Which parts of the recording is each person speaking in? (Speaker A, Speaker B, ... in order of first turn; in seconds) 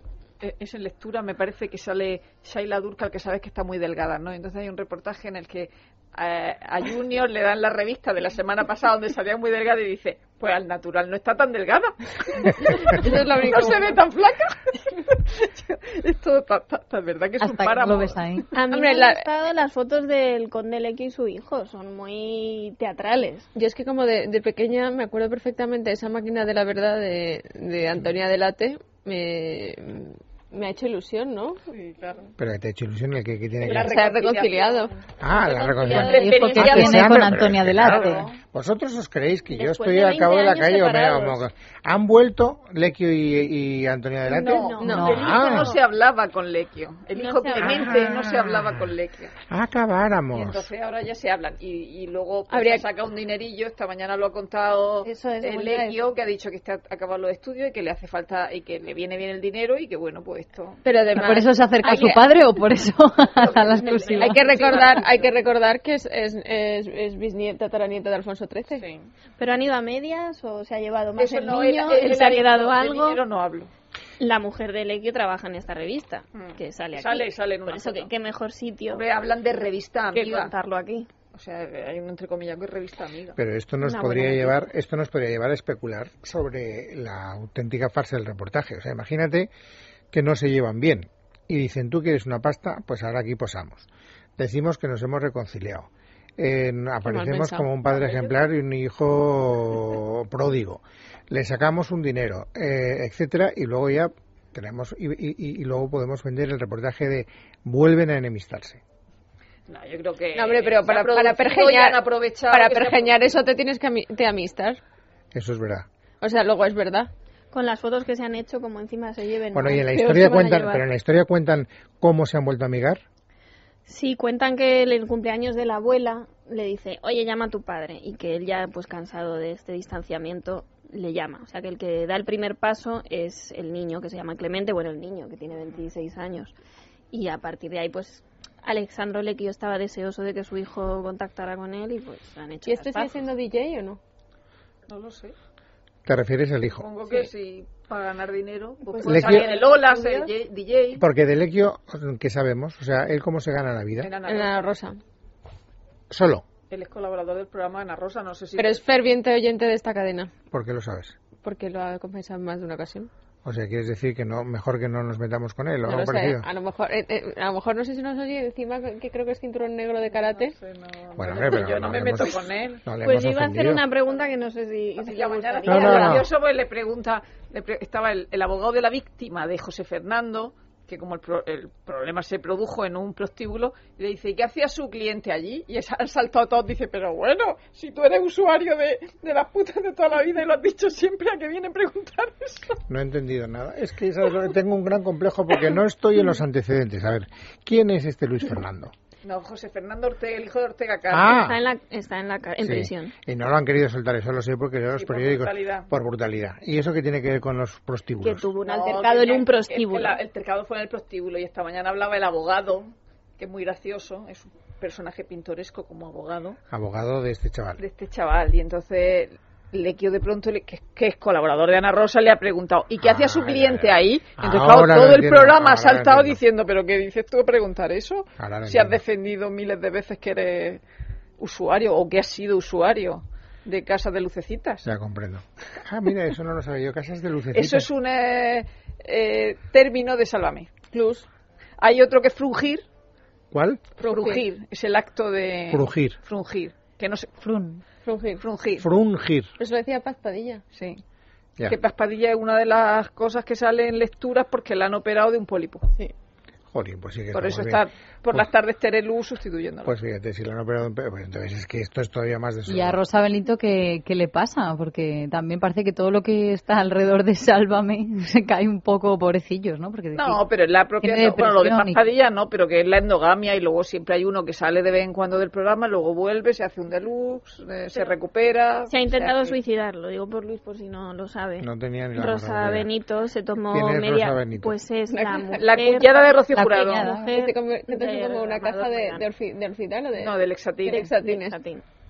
Speaker A: 0.4-18.4, 31.7-32.3, 33.6-34.9, 35.6-38.3, 44.2-49.3, 50.3-62.2, 63.4-65.5, 68.7-69.1, 71.2-73.7, 76.3-78.1, 78.9-80.5, 81.3-83.4, 97.9-98.4, 109.7-113.4, 144.9-145.3, 146.8-151.0, 154.0-154.7, 156.7-158.8, 170.1-172.8, 175.0-192.7, 199.2-201.5, 204.9-205.9, 208.6-216.6, 217.8-230.8, 231.4-234.8, 237.5-240.8, 241.8-242.8, 244.0-247.3, 248.4-248.9, 250.7-251.0, 251.7-255.9, 257.3-259.9, 270.1-279.5, 285.6-287.1, 290.1-291.1
Speaker B: 12.9-14.0, 18.7-19.3, 23.5-31.6, 33.6-34.9, 44.8-45.2, 52.5-52.9, 60.8-61.4, 64.2-68.8, 71.5-72.4, 97.0-97.7, 110.3-114.8, 116.2-117.1, 142.6-144.0, 148.9-149.3, 154.3-155.0, 158.6-160.3, 161.4-163.1, 165.8-170.5, 240.9-241.3, 244.0-244.4, 248.0-248.4, 249.6-250.6, 285.1-285.7, 287.3-291.6
Speaker C: 17.4-18.5, 35.9-38.2, 61.1-64.5, 247.4-247.8, 262.7-270.4, 271.0-272.0, 286.5-287.3
Speaker D: 18.5-23.5, 35.3-36.8, 39.5-41.4, 44.4-45.8, 47.1-48.0, 55.0-56.0, 61.8-62.2, 63.5-64.9, 69.4-73.2, 74.2-79.0, 80.2-81.1, 83.8-84.7, 117.5-120.8, 123.8-136.5, 137.1-143.1, 149.1-150.3, 173.0-176.3, 201.4-203.1, 208.2-210.2, 278.9-286.2, 287.0-289.2, 290.9-291.8
Speaker E: 32.4-33.9, 35.2-45.7, 47.6-48.6, 49.5-50.7, 83.4-89.5, 90.1-108.8, 115.3-115.9, 119.5-123.0, 146.1-146.9, 149.0-149.5, 151.0-154.1, 156.1-156.4, 160.5-161.2, 163.4-166.5, 171.2-173.8, 175.6-176.3, 192.9-198.9, 201.1-201.6, 202.6-208.5, 216.7-217.8, 223.0-226.4, 228.4-229.0, 234.8-237.9, 243.5-243.8, 245.7-246.2, 248.8-249.5, 256.7-258.4, 259.9-263.0, 281.6-282.9, 283.7-284.8